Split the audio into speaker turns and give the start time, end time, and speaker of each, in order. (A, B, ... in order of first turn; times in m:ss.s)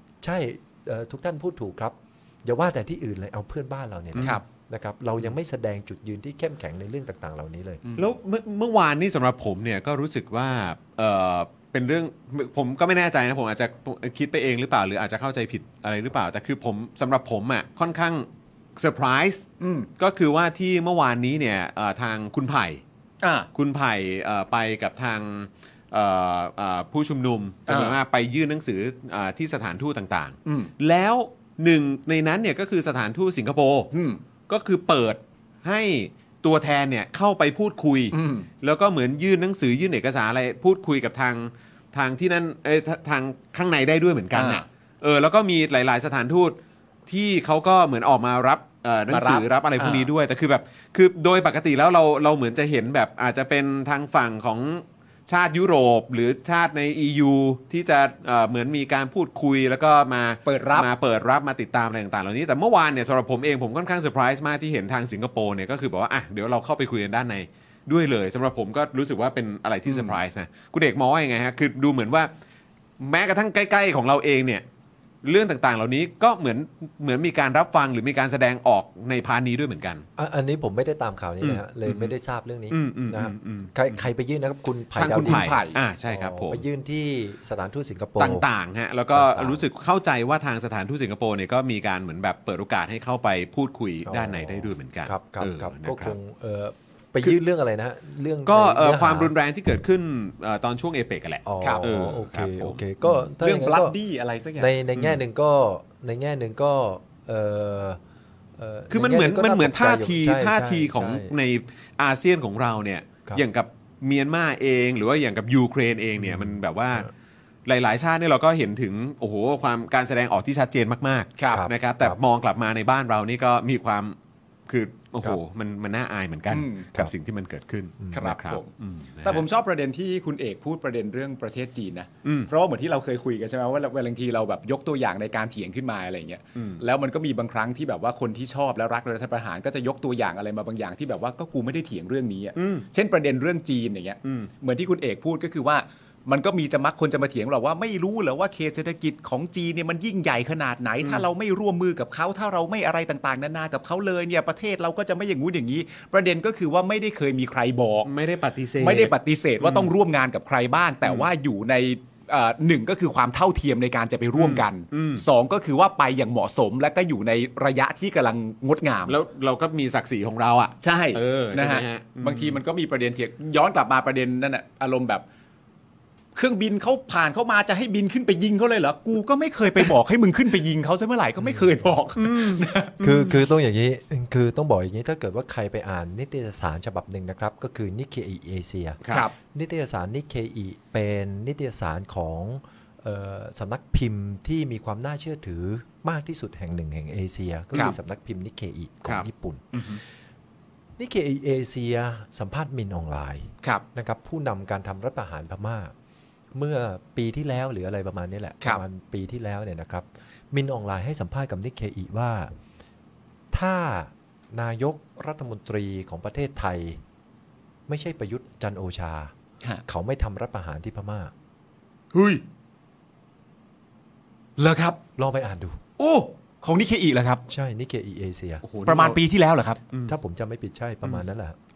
0:00.2-0:07.8 A
0:08.0-0:22.8 B
0:19.6-0:19.9 C
0:23.2-0:23.5 C
0:23.5-0:33.9 B
0:27.7-0:28.0 C
0:30.4-0:30.7 C
0:33.9-0:34.2 C
0:34.5-0:46.6 B
0:38.1-0:38.5 C
0:44.3-0:44.6 C
0:47.1-1:12.3 B
0:49.1-0:50.1 C
1:00.4-1:00.9 C
1:13.0-1:14.6 B
1:15.2-1:20.0 B
1:20.2-1:28.4 A
1:21.4-1:22.1 B
1:22.7-1:24.1 B
1:25.0-1:26.6 B
1:25.1-1:25.8 C
1:28.2-1:36.2 B
1:29.1-1:29.6 A
1:34.0-1:39.3 A
1:38.4-1:42.8 B
1:41.4-1:44.0 A
1:43.4-1:44.7 C
1:44.6-1:48.0 A
1:48.6-1:51.3 A
1:48.9-1:57.1 B
1:56.2-1:57.1 A
1:57.6-2:04.2 B
2:01.4-2:01.6 C
2:01.5-2:02.2 A
2:04.7-2:09.4 B
2:06.5-2:06.9 C
2:08.1-2:08.7 C
2:09.2-2:38.1 C
2:12.2-2:12.5 B
2:16.5-2:16.8 B
2:22.6-2:22.8 B
2:24.2-2:24.5 B
2:38.0-2:39.9 B
2:38.8-2:49.2 C
2:44.4-2:45.2 B
2:49.1-2:52.6 B
2:50.8-2:55.2 C
2:56.3-3:03.0 C
3:02.2-3:03.4 B
3:03.0-3:20.0 A
3:21.0-3:25.9 A
3:26.5-3:32.5 A
3:33.5-3:37.0 A
3:37.9-3:39.3 A
3:39.8-3:41.3 A
3:42.1-3:42.4 B
3:44.6-3:45.0 C
3:45.2-3:45.8 A
3:46.0-3:47.4 C
3:47.5-3:48.6 A
3:48.6-3:49.2 B
3:48.8-3:49.8 C
3:50.0-3:51.6 A